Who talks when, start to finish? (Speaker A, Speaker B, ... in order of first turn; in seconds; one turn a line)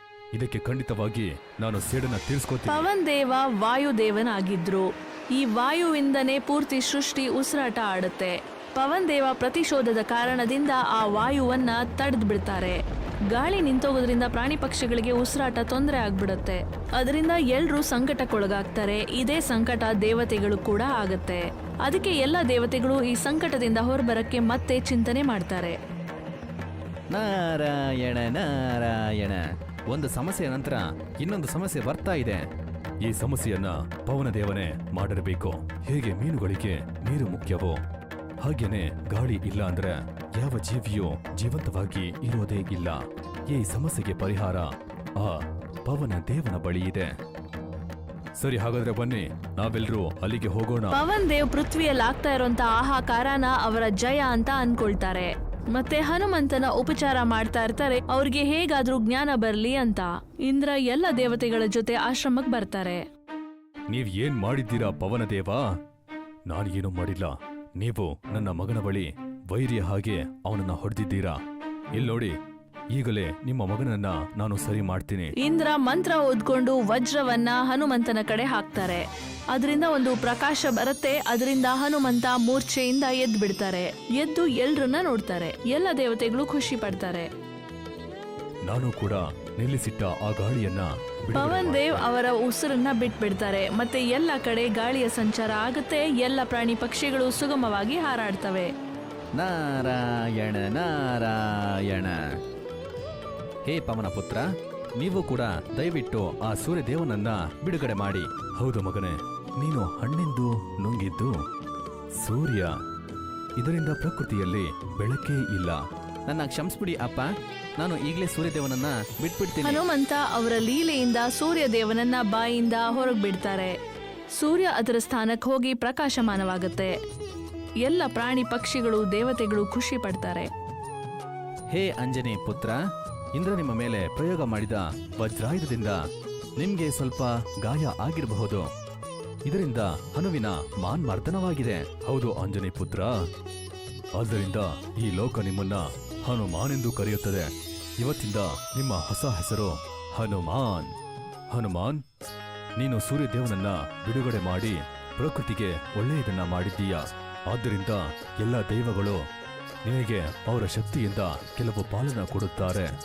Speaker A: 0.3-2.9
Speaker B: 2.7-12.8
Speaker B: 13.3-25.8
Speaker C: 27.1-32.4
Speaker A: 33.0-37.8
Speaker A: 38.4-47.1
Speaker A: 48.4-51.0
Speaker B: 50.9-63.0
Speaker A: 63.9-65.6
Speaker A: 66.5-71.4
Speaker A: 72.0-72.4
Speaker A: 72.9-75.3
Speaker B: 75.4-87.3
Speaker A: 88.7-92.0
Speaker B: 91.3-98.7
Speaker C: 99.4-102.2
Speaker C: 103.7-104.5
Speaker C: 105.0-108.3
Speaker A: 108.5-111.3
Speaker A: 112.2-112.7
Speaker A: 113.6-115.8
Speaker C: 116.3-119.8
Speaker B: 119.6-123.7
Speaker B: 124.4-127.0
Speaker B: 127.8-130.5
Speaker C: 131.7-132.8
Speaker C: 133.4-134.7
Speaker A: 134.0-136.0
Speaker A: 136.6-138.7
Speaker A: 139.5-143.1
Speaker A: 144.2-150.9
Speaker A: 151.5-152.0
Speaker A: 152.8-159.2
Speaker A: 159.9-162.9